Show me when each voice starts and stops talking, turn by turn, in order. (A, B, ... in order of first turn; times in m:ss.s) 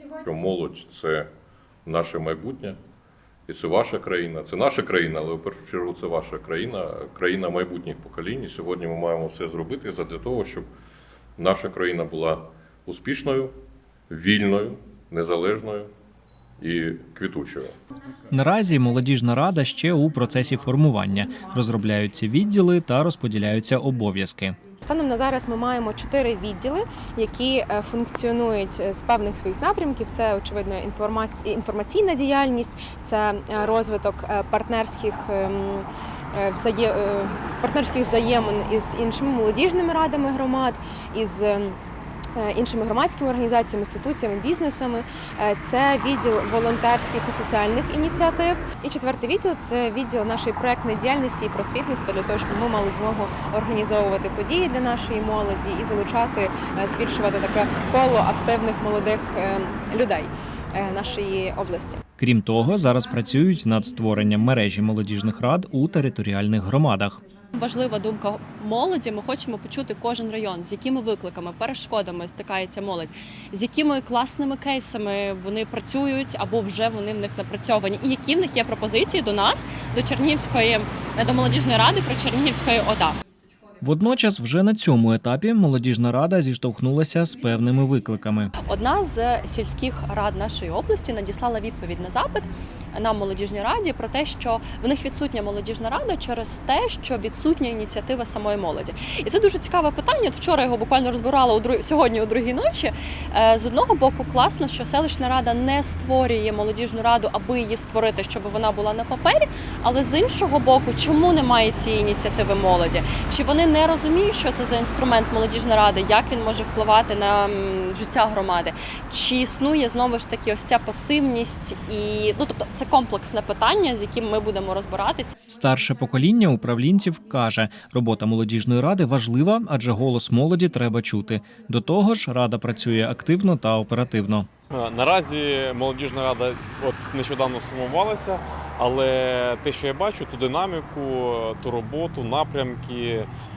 0:00.2-0:01.3 A
0:01.8-0:02.8 A
0:03.5-0:10.7 A
0:11.4-0:13.5 A
0:14.1-0:15.9 A
0:16.6-0:17.7 A
0:18.3-0:24.6 B
0:24.8-0:41.8 C
0:42.3-1:02.0 C
1:02.2-1:07.2 B
1:07.5-1:23.2 D
1:23.8-1:28.5 B
1:28.6-2:05.4 D
2:05.5-2:14.5 B
2:14.7-2:23.3 E